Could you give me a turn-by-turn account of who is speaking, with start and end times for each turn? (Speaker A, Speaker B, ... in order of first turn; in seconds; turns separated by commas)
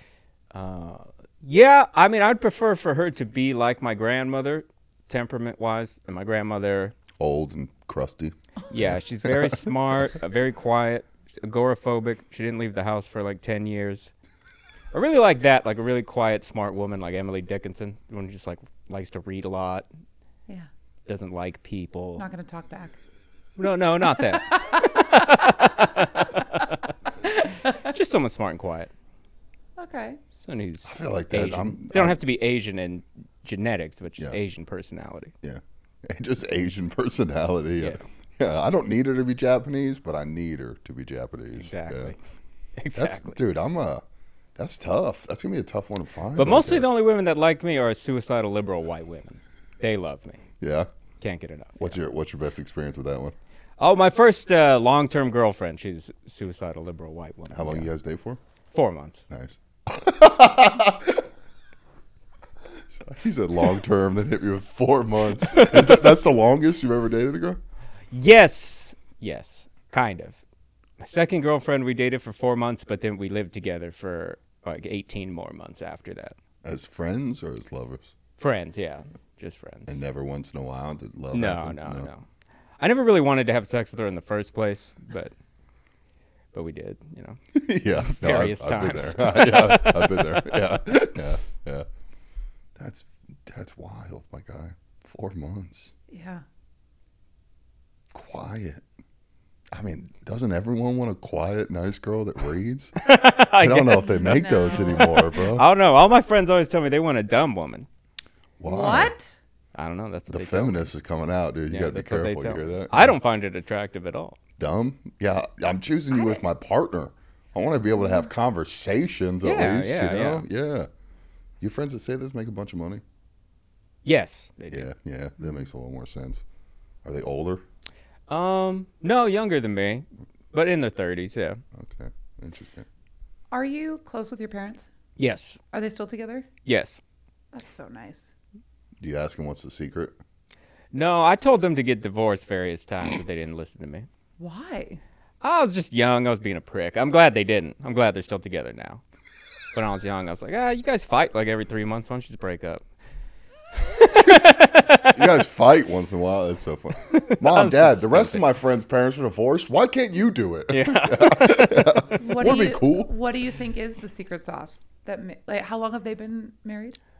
Speaker A: 0.5-7.0, Speaker B: 7.2-9.6, Speaker A: 8.7-14.1, Speaker A: 14.9-19.9, Speaker A: 21.1-22.2, Speaker C: 22.2-23.0, Speaker A: 23.6-28.9, Speaker C: 24.1-25.4, Speaker C: 29.8-30.2, Speaker A: 30.4-35.3, Speaker B: 30.9-32.2, Speaker B: 35.4-42.1, Speaker A: 37.8-38.0, Speaker A: 41.5-42.2, Speaker A: 42.8-43.4, Speaker B: 43.0-44.0, Speaker B: 44.6-46.9, Speaker A: 46.4-50.4, Speaker B: 50.6-50.9, Speaker A: 51.2-52.0, Speaker B: 51.8-53.4, Speaker A: 53.8-57.9, Speaker B: 57.5-58.4, Speaker A: 58.7-59.2, Speaker B: 59.3-61.3, Speaker B: 62.9-67.6, Speaker A: 65.5-66.1, Speaker A: 68.1-70.4, Speaker A: 71.0-76.3, Speaker B: 76.6-78.1, Speaker A: 78.4-80.0, Speaker B: 79.9-82.1, Speaker A: 81.3-82.2, Speaker A: 82.8-85.3, Speaker A: 86.5-87.4, Speaker B: 87.5-91.9, Speaker A: 88.0-90.8, Speaker B: 92.8-95.9, Speaker C: 96.1-96.4, Speaker B: 98.1-98.8, Speaker B: 99.7-103.0, Speaker A: 103.0-107.9, Speaker B: 103.6-105.7, Speaker C: 103.8-105.3, Speaker B: 108.6-109.1, Speaker C: 108.6-109.3, Speaker A: 109.8-110.9, Speaker B: 110.3-113.1, Speaker A: 111.7-114.4, Speaker B: 114.6-120.9, Speaker C: 118.0-118.2, Speaker A: 119.4-120.4, Speaker B: 121.6-123.0, Speaker A: 124.0-124.9, Speaker B: 124.7-126.4, Speaker B: 127.0-127.6, Speaker A: 128.3-131.6, Speaker B: 131.8-132.9, Speaker C: 133.5-134.9, Speaker A: 135.2-135.6, Speaker C: 135.7-136.5, Speaker A: 136.6-137.0, Speaker C: 137.5-138.3, Speaker B: 139.0-140.1, Speaker A: 140.9-144.1, Speaker C: 144.4-145.0, Speaker A: 145.4-149.0, Speaker A: 149.7-152.8, Speaker A: 153.8-155.2, Speaker B: 155.1-163.1, Speaker A: 157.2-158.5, Speaker A: 160.7-162.2, Speaker C: 162.1-167.0